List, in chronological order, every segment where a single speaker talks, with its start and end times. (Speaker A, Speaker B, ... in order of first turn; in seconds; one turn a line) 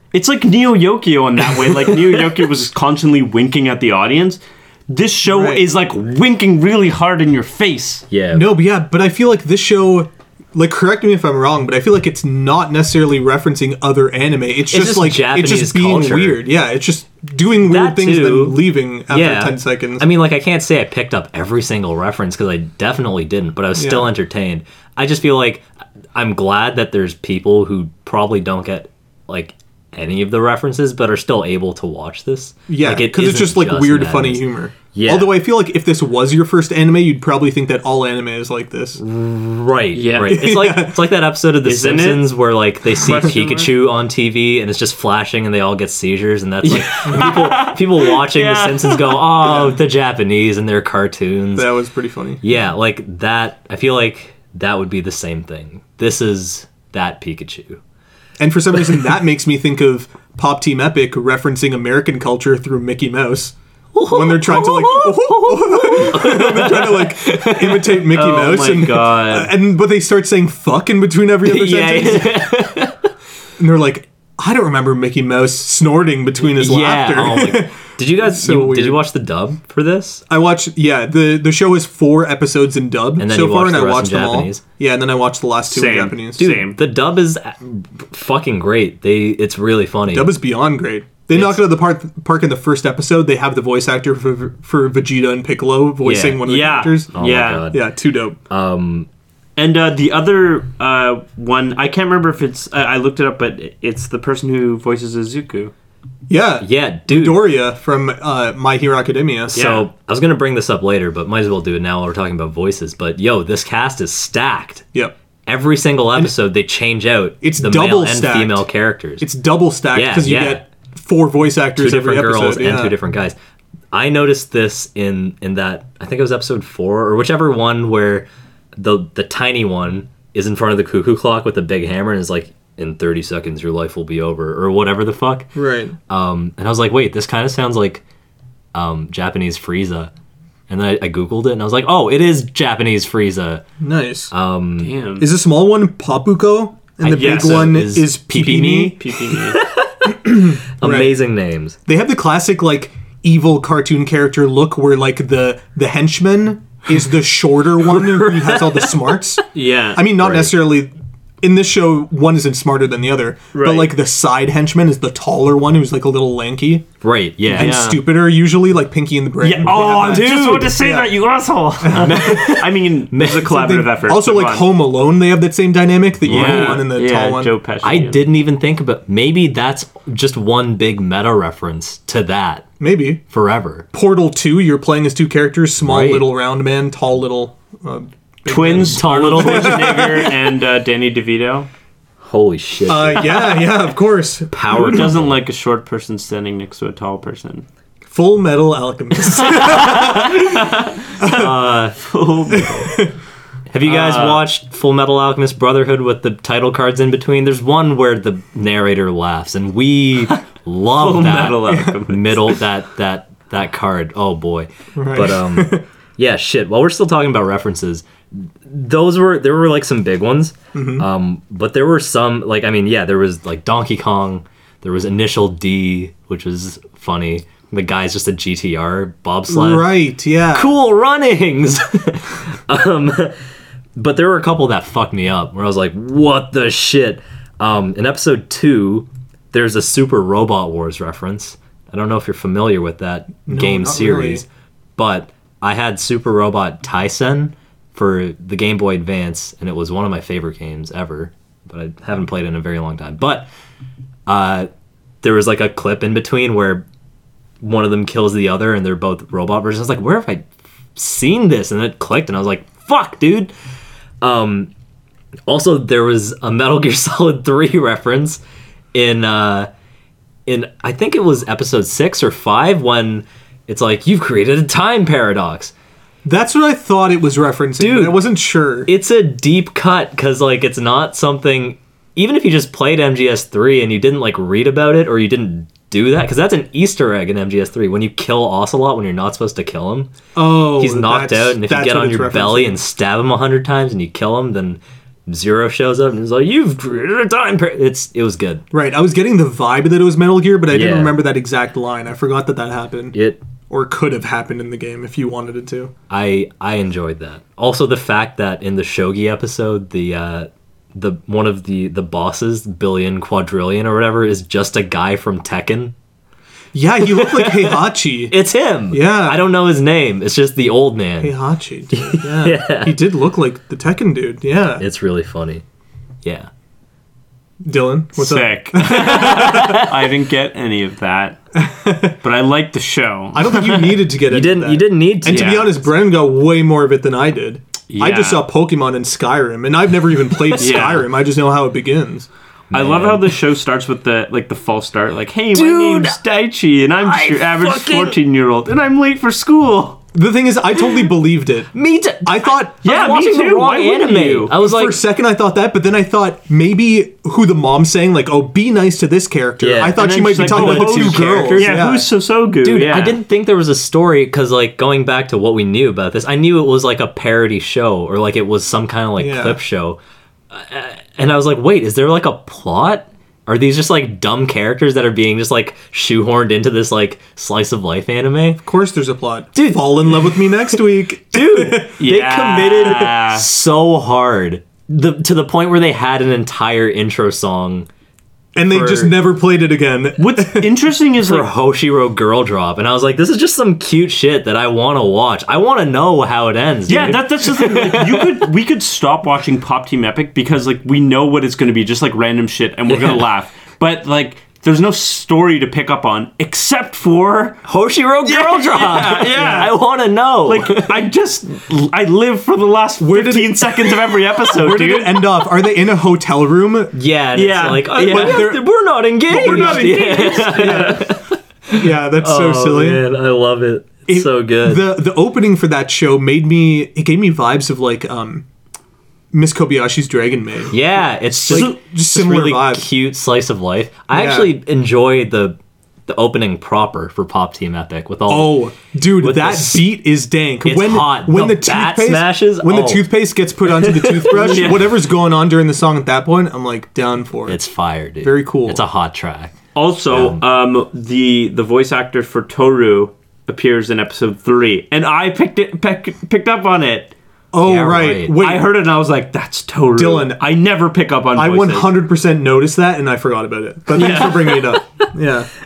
Speaker A: 0.1-8.0
Speaker B: 1.7-2.2
Speaker C: 5.3-5.6
Speaker B: 8.1-8.5
Speaker C: 8.3-20.1
Speaker B: 14.7-16.4
Speaker B: 17.6-35.4
Speaker C: 23.8-24.1
Speaker C: 32.7-39.0
Speaker B: 39.0-51.7
Speaker A: 39.9-40.4
Speaker C: 40.3-41.0
Speaker A: 41.6-42.3
Speaker A: 42.9-43.7
Speaker A: 46.6-49.3
Speaker C: 49.4-49.8
Speaker C: 51.5-52.4
Speaker B: 52.4-57.8
Speaker C: 58.4-63.5
Speaker B: 63.9-68.1
Speaker C: 64.1-72.5
Speaker A: 68.1-69.5
Speaker B: 71.4-73.0
Speaker C: 73.6-79.0
Speaker B: 76.4-80.2
Speaker C: 80.3-86.5
Speaker B: 83.2-84.6
Speaker A: 85.7-86.8
Speaker B: 86.4-90.3
Speaker C: 90.1-97.1
Speaker B: 91.3-91.6
Speaker B: 96.0-96.4
Speaker A: 96.4-97.7
Speaker B: 97.1-97.8
Speaker C: 97.7-98.4
Speaker B: 98.5-99.1
Speaker A: 99.6-105.7
Speaker C: 106.3-109.6
Speaker B: 106.6-107.4
Speaker A: 109.5-109.9
Speaker B: 109.5-114.9
Speaker B: 115.5-119.2
Speaker C: 117.4-118.7
Speaker C: 119.2-122.9
Speaker B: 119.9-120.6
Speaker B: 121.8-123.4
Speaker B: 123.9-135.5
Speaker C: 135.5-135.9
Speaker B: 136.1-138.0
Speaker B: 138.7-140.1
Speaker B: 140.7-143.6
Speaker C: 143.8-144.3
Speaker B: 144.3-144.9
Speaker A: 144.8-145.3
Speaker C: 145.2-149.0
Speaker B: 147.0-151.8
Speaker A: 147.1-147.7
Speaker A: 148.8-149.6
Speaker C: 150.1-151.1
Speaker C: 151.9-159.4
Speaker B: 157.8-159.2
Speaker A: 159.5-160.0
Speaker C: 159.9-166.9
Speaker B: 160.2-160.5
Speaker A: 163.5-163.9
Speaker B: 167.0-168.0
Speaker C: 167.5-171.1
Speaker A: 167.5-168.0
Speaker A: 169.4-174.7
Speaker B: 169.9-170.6
Speaker C: 171.8-172.6
Speaker B: 172.0-173.4
Speaker C: 173.2-177.5
Speaker B: 176.2-176.9
Speaker A: 176.2-178.2
Speaker B: 177.8-182.7
Speaker C: 182.8-183.2
Speaker B: 183.3-183.8
Speaker C: 183.9-190.3
Speaker B: 185.8-186.3
Speaker A: 188.5-191.7
Speaker B: 188.7-190.2
Speaker B: 192.2-193.8
Speaker C: 192.9-195.0
Speaker B: 194.5-195.3
Speaker A: 194.7-197.6
Speaker C: 198.1-200.6
Speaker B: 199.4-200.4
Speaker A: 199.4-201.1
Speaker C: 201.2-201.5
Speaker B: 201.2-202.0
Speaker A: 202.0-203.0
Speaker C: 202.6-203.1
Speaker B: 203.7-229.9
Speaker A: 203.8-204.4
Speaker A: 210.9-212.5
Speaker C: 215.0-215.8
Speaker C: 220.7-221.1
Speaker C: 229.5-230.7
Speaker B: 230.5-233.3
Speaker B: 234.0-244.4
Speaker C: 243.4-244.4
Speaker B: 245.0-253.5
Speaker B: 254.3-254.7
Speaker B: 255.2-256.9
Speaker B: 257.6-263.5
Speaker B: 264.2-264.7
Speaker B: 265.5-268.4
Speaker B: 268.9-269.7
Speaker B: 270.4-275.7
Speaker C: 276.2-278.9
Speaker B: 277.8-278.2
Speaker B: 278.9-290.1
Speaker C: 290.4-292.8
Speaker B: 290.8-298.6
Speaker C: 298.7-303.2
Speaker B: 300.7-301.1
Speaker B: 303.1-303.4
Speaker C: 303.7-305.9
Speaker B: 306.1-315.9
Speaker C: 316.7-318.3
Speaker B: 317.0-321.3
Speaker C: 318.9-319.4
Speaker C: 321.2-324.8
Speaker B: 321.9-323.0
Speaker B: 324.8-325.6
Speaker B: 326.2-326.5
Speaker C: 327.6-329.8
Speaker A: 328.2-331.4
Speaker B: 328.9-330.1
Speaker C: 331.5-332.2
Speaker A: 332.2-334.0
Speaker C: 333.3-342.3
Speaker B: 334.2-335.8
Speaker A: 335.2-335.7
Speaker A: 337.9-338.4
Speaker A: 340.6-341.1
Speaker B: 342.7-343.3
Speaker A: 342.7-350.0
Speaker B: 345.5-346.2
Speaker B: 347.0-348.2
Speaker C: 350.1-351.7
Speaker B: 350.8-351.1
Speaker B: 351.7-355.0
Speaker C: 352.2-352.8
Speaker A: 352.8-354.5
Speaker C: 354.5-362.1
Speaker B: 359.6-361.8
Speaker A: 359.9-363.2
Speaker B: 362.6-370.0
Speaker C: 369.2-369.6
Speaker B: 370.5-378.6
Speaker C: 378.6-381.9
Speaker B: 379.5-387.9
Speaker A: 382.0-383.4
Speaker C: 388.5-390.8
Speaker B: 388.6-389.1
Speaker A: 390.2-391.5
Speaker B: 391.2-398.5
Speaker A: 396.9-407.6
Speaker B: 402.9-403.3
Speaker B: 407.6-411.0
Speaker A: 408.2-409.7
Speaker A: 410.4-415.2
Speaker C: 413.0-417.0
Speaker B: 416.9-424.9
Speaker A: 417.3-418.5
Speaker C: 417.9-418.6
Speaker A: 419.3-421.1
Speaker C: 419.3-421.1
Speaker C: 421.7-423.0
Speaker C: 424.1-428.4
Speaker C: 429.3-432.9
Speaker B: 430.7-438.6
Speaker A: 431.5-431.8
Speaker C: 434.1-434.5
Speaker C: 438.3-447.6
Speaker B: 439.2-439.9
Speaker B: 440.6-443.1
Speaker B: 443.7-444.7
Speaker A: 444.3-444.9
Speaker B: 447.4-449.6
Speaker C: 448.2-448.8
Speaker A: 449.7-457.1
Speaker B: 450.1-450.4
Speaker C: 457.5-458.7
Speaker B: 457.6-458.4
Speaker A: 458.4-461.9
Speaker C: 459.9-460.4
Speaker C: 461.4-465.5
Speaker A: 463.9-464.8
Speaker B: 464.0-464.5